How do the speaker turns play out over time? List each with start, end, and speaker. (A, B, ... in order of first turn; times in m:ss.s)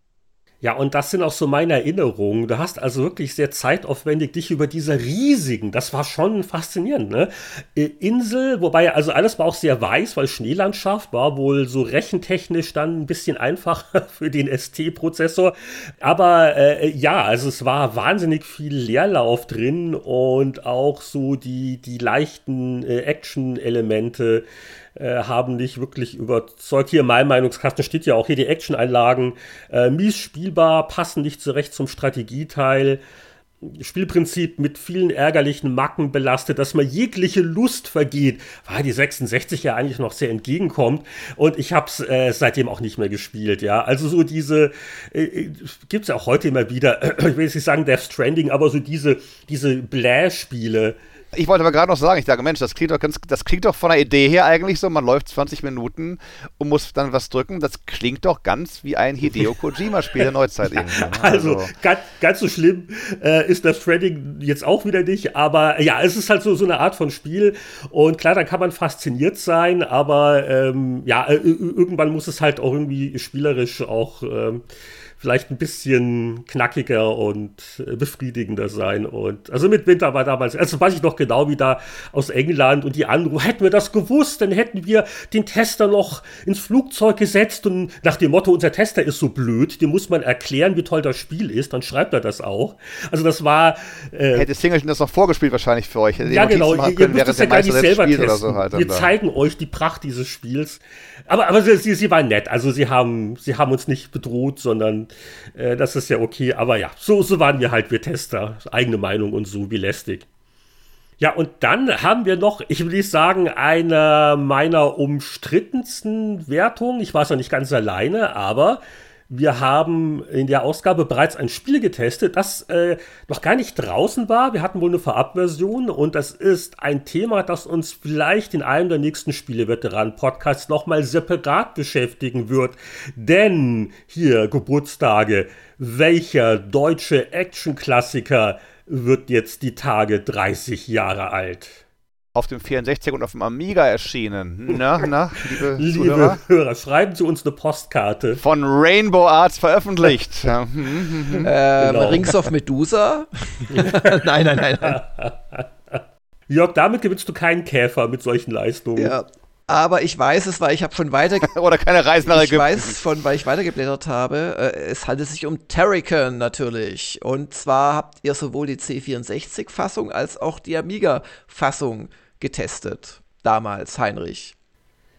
0:00.6-0:24.4 A
0:25.0-0:33.0 A
0:33.6-0:51.0 A
0:51.3-1:01.7 B
1:00.7-1:14.6 A
1:15.2-1:34.5 A
1:34.3-1:39.1 B
1:36.2-1:50.2 A
1:51.2-2:21.8 A
2:22.3-2:26.4 B
2:25.4-2:28.4 A
2:28.4-2:31.5 B
2:31.3-2:32.4 A
2:31.4-2:35.0 C
2:33.7-2:39.2 A
2:39.0-2:41.5 C
2:41.4-2:43.0 B
2:42.2-2:54.5 C